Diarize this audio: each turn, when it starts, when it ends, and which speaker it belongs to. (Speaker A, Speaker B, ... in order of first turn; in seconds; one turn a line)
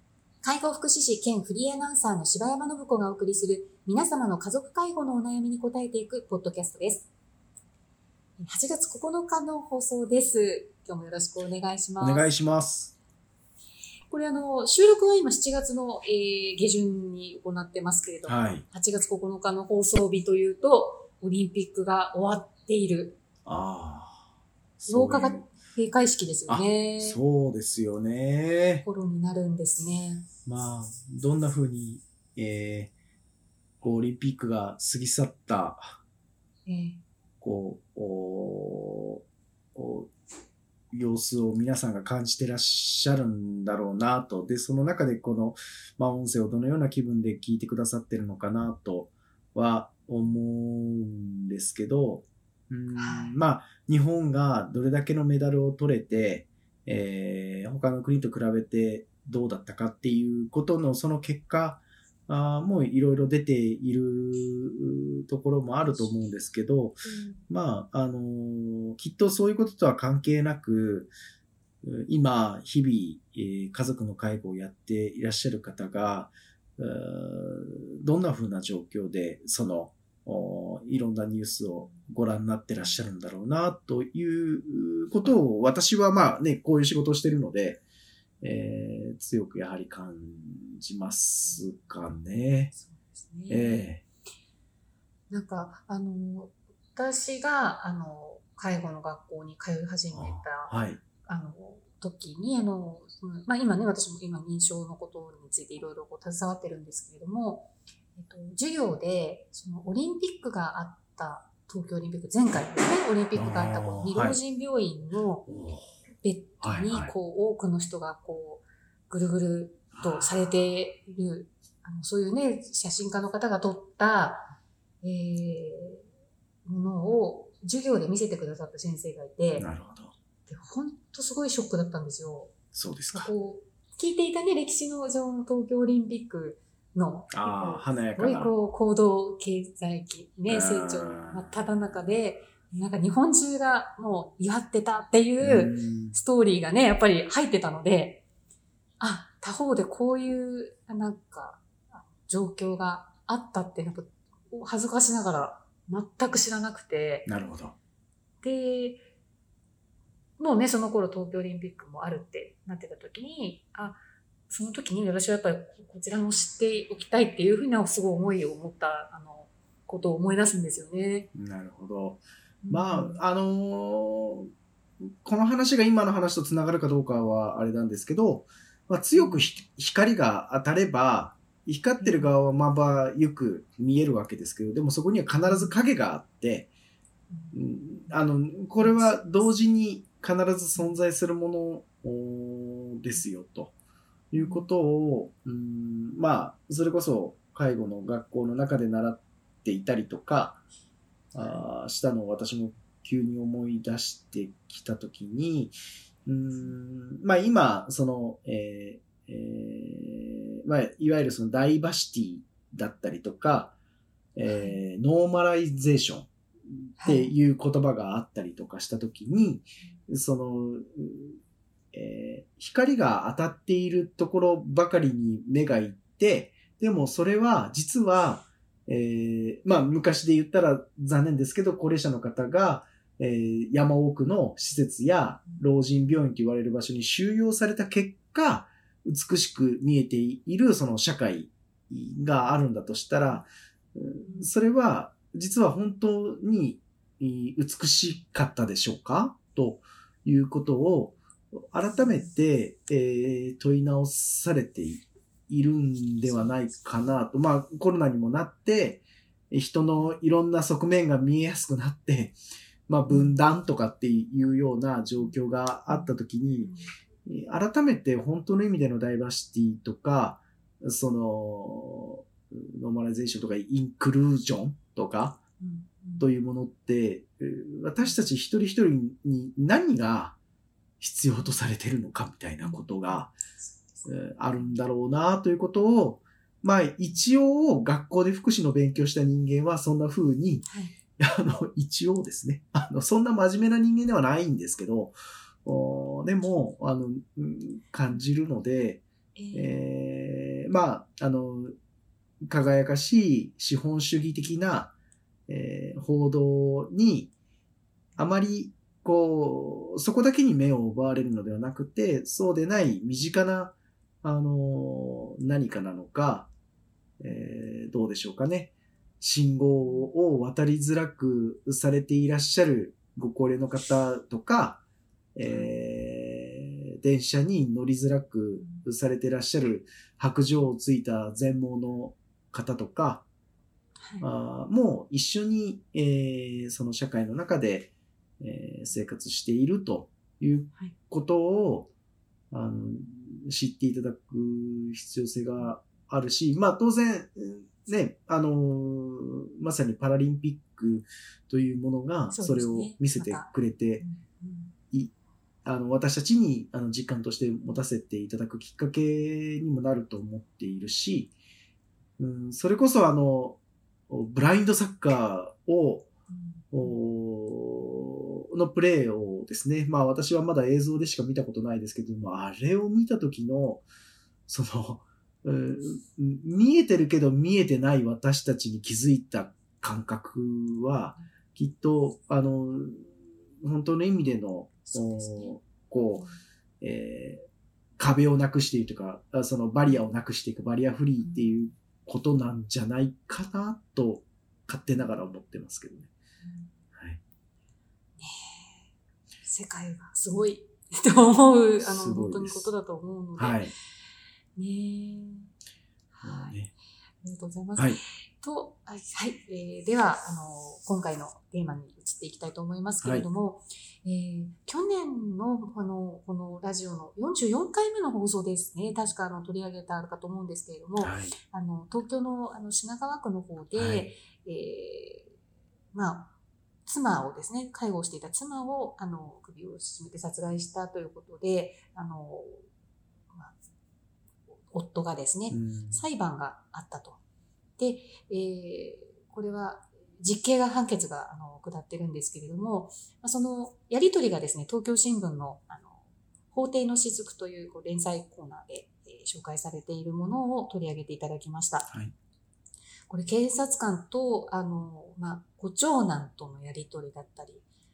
Speaker A: 0.4-7.1
Speaker A: 8.4-12.3
Speaker B: 12.0-12.9
Speaker A: 14.1-23.2
Speaker B: 18.2-18.6
Speaker B: 23.4-24.2
Speaker B: 24.8-25.5
Speaker A: 24.9-27.2
Speaker B: 26.5-28.9
Speaker A: 28.8-30.2
Speaker B: 30.4-32.9
Speaker B: 33.8-36.0
Speaker A: 36.6-37.0
Speaker B: 37.4-39.2
Speaker B: 39.7-40.1
Speaker B: 40.9-71.1
Speaker A: 52.9-53.3
Speaker B: 71.8-87.8
Speaker B: 88.4-92.7
Speaker A: 92.8-93.9
Speaker B: 93.5-94.0
Speaker A: 95.3-115.5
Speaker B: 100.1-101.0
Speaker B: 113.3-114.4
Speaker B: 115.5-115.9
Speaker A: 116.2-124.5
Speaker B: 116.6-117.1
Speaker B: 119.9-120.5
Speaker A: 125.0-126.0
Speaker A: 126.6-129.7
Speaker B: 129.6-130.1
Speaker A: 130.5-132.5
Speaker B: 132.7-133.3
Speaker A: 133.1-148.2
Speaker B: 137.3-138.5
Speaker B: 140.5-141.5
Speaker B: 145.4-146.2
Speaker A: 149.0-157.3
Speaker B: 157.2-157.8
Speaker A: 158.4-159.0
Speaker A: 160.4-171.3
Speaker B: 171.3-174.5
Speaker A: 172.6-173.2
Speaker B: 175.2-186.7
Speaker A: 179.1-179.5
Speaker A: 182.0-182.3
Speaker A: 185.4-185.8
Speaker A: 187.3-188.1
Speaker B: 187.5-193.7
Speaker A: 188.8-189.4
Speaker B: 194.3-200.6
Speaker A: 194.3-194.7
Speaker B: 201.3-205.7
Speaker B: 206.2-213.7
Speaker B: 214.3-221.4
Speaker A: 214.4-214.8
Speaker A: 217.0-217.3
Speaker B: 221.9-251.2
Speaker B: 251.7-262.4
Speaker A: 251.9-252.3
Speaker A: 256.3-256.5
Speaker B: 262.9-266.7
Speaker A: 263.1-263.4
Speaker A: 266.6-266.9
Speaker B: 267.2-275.4
Speaker A: 275.6-276.2
Speaker B: 276.2-280.4
Speaker B: 281.0-283.3
Speaker A: 282.6-284.1
Speaker B: 284.1-290.6
Speaker A: 290.6-290.9
Speaker B: 291.2-301.7
Speaker A: 299.3-299.8
Speaker B: 302.4-304.9
Speaker B: 305.5-307.3
Speaker B: 308.2-316.5
Speaker B: 317.2-324.8
Speaker A: 319.8-320.1
Speaker B: 325.3-333.2
Speaker A: 328.6-328.9
Speaker B: 334.2-341.9
Speaker B: 342.5-354.0
Speaker A: 352.3-353.5
Speaker A: 354.0-354.7
Speaker B: 355.6-361.3
Speaker B: 362.2-363.6
Speaker B: 364.1-366.1
Speaker A: 366.3-367.0
Speaker B: 366.7-373.8
Speaker B: 374.5-386.3
Speaker A: 384.9-385.6
Speaker B: 386.8-387.4
Speaker B: 388.0-396.1
Speaker A: 391.2-391.5
Speaker A: 396.4-396.7
Speaker B: 396.9-397.2
Speaker A: 398.2-398.9
Speaker A: 399.4-403.6
Speaker B: 401.8-402.7
Speaker B: 403.4-403.7
Speaker A: 404.6-405.5
Speaker A: 406.1-406.6
Speaker B: 406.2-406.7
Speaker A: 407.2-425.3
Speaker B: 413.0-413.3
Speaker B: 421.0-421.3
Speaker B: 423.7-424.1
Speaker A: 425.9-426.3
Speaker A: 426.9-432.6
Speaker A: 434.7-437.2
Speaker B: 435.5-436.1
Speaker A: 437.8-446.0
Speaker A: 446.5-451.9
Speaker A: 453.1-457.6